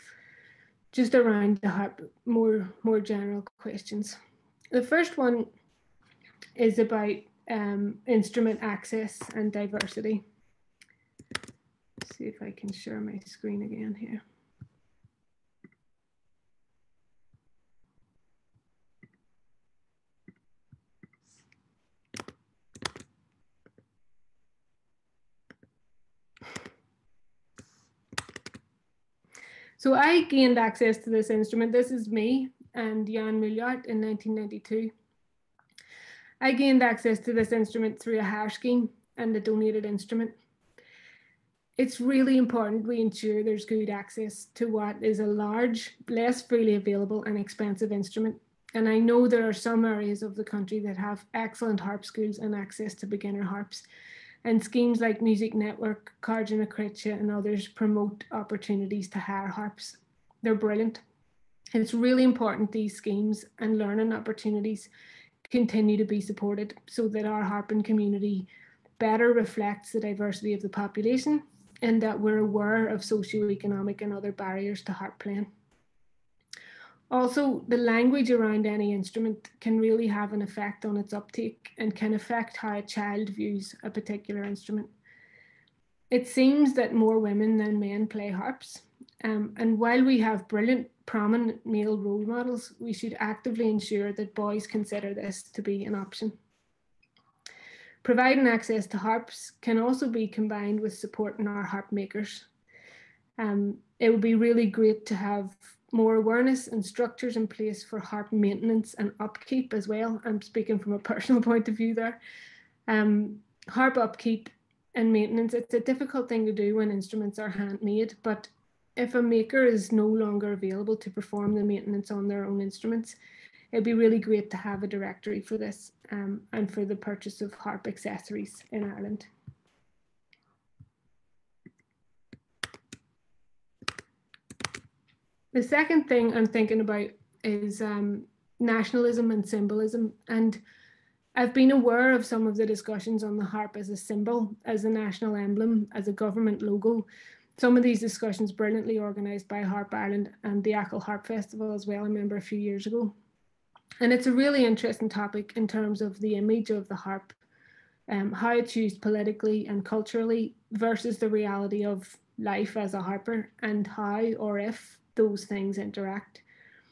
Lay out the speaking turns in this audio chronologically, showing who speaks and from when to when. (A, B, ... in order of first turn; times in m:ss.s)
0:00.9-0:04.2 A
0:04.7-0:05.5 A
0:06.6-0:10.2 A
0:12.0-0:14.2 A
0:29.8-0:34.9 A
0:36.4-0:40.4 A
0:41.8-0:53.8 A
0:54.4-1:01.0 A
1:01.7-1:04.9 A
1:05.4-1:15.5 A
1:17.1-1:24.9 A
1:26.1-1:36.4 A
1:38.0-1:42.4 A
1:43.4-1:52.2 A
1:52.9-2:03.2 A
2:03.7-2:09.3 A
2:15.5-2:20.6 A
2:21.3-2:33.1 A
2:34.0-2:37.4 A
2:38.1-2:46.4 A